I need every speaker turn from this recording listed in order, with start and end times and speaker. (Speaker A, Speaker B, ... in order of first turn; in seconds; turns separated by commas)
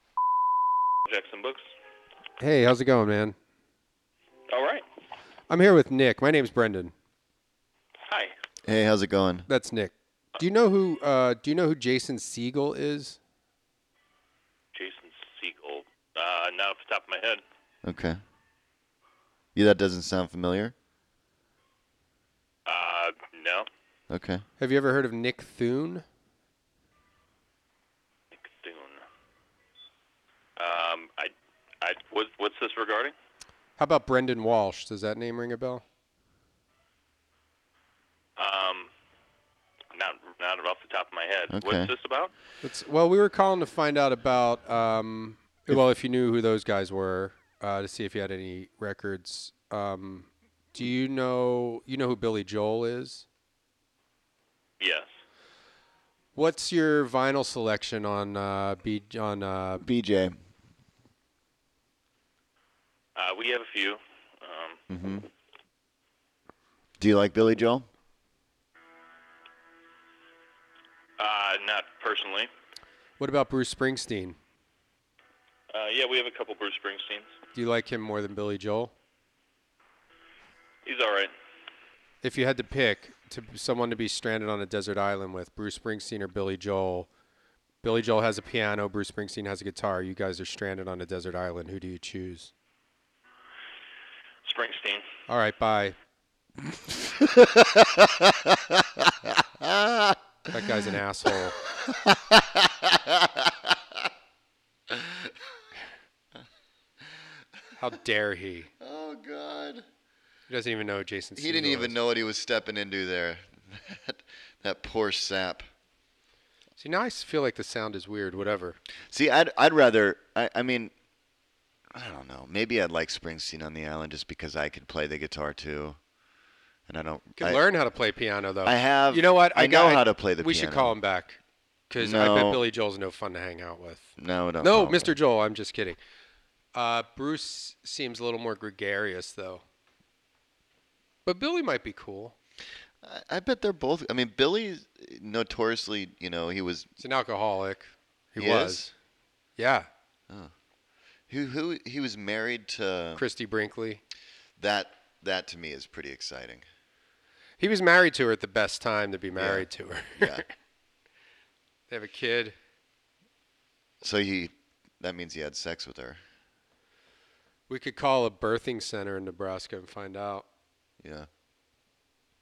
Speaker A: 1.1-1.7, Speaker B: 2.4-3.4, Speaker A: 4.5-4.8, Speaker B: 5.5-6.9, Speaker A: 8.1-8.3, Speaker C: 8.7-9.5, Speaker B: 9.5-13.2, Speaker A: 14.7-17.4, Speaker C: 17.8-18.2, Speaker C: 19.6-20.7, Speaker A: 22.7-23.7, Speaker C: 24.1-24.4, Speaker B: 24.6-26.1, Speaker A: 28.4-29.0, Speaker A: 30.6-33.1, Speaker B: 33.8-35.8, Speaker A: 38.4-38.9, Speaker A: 39.9-42.3, Speaker C: 41.5-41.9, Speaker B: 42.6-53.3, Speaker A: 54.8-55.1, Speaker B: 56.4-59.9, Speaker C: 59.8-60.4, Speaker A: 63.2-64.8, Speaker C: 64.9-65.3, Speaker C: 67.0-67.9, Speaker A: 71.2-72.5, Speaker B: 73.2-74.4, Speaker A: 75.7-77.3, Speaker B: 77.5-78.9, Speaker A: 80.8-81.3, Speaker B: 82.2-87.1, Speaker B: 87.8-92.5, Speaker A: 94.4-95.0, Speaker B: 95.3-96.0, Speaker C: 96.7-100.2, Speaker B: 100.5-101.6, Speaker C: 101.7-104.0, Speaker C: 104.9-105.3, Speaker B: 107.8-108.7, Speaker C: 108.8-109.8, Speaker B: 110.5-112.0, Speaker C: 111.4-115.7, Speaker B: 116.8-118.8, Speaker C: 119.1-120.9, Speaker C: 121.9-126.0, Speaker C: 126.9-127.6, Speaker B: 127.4-131.4, Speaker C: 128.6-131.0, Speaker B: 131.9-134.1, Speaker C: 132.0-132.7, Speaker C: 134.2-135.2, Speaker B: 134.6-136.0, Speaker B: 136.7-139.6, Speaker B: 141.3-142.3, Speaker C: 143.0-146.9, Speaker B: 147.0-148.9, Speaker C: 148.4-148.9, Speaker B: 149.6-149.9, Speaker C: 151.3-153.2, Speaker B: 153.2-154.0, Speaker C: 154.6-156.7, Speaker B: 157.6-160.5, Speaker C: 159.4-160.4, Speaker B: 161.9-162.6, Speaker C: 164.0-166.2, Speaker B: 167.7-170.5, Speaker C: 171.0-171.3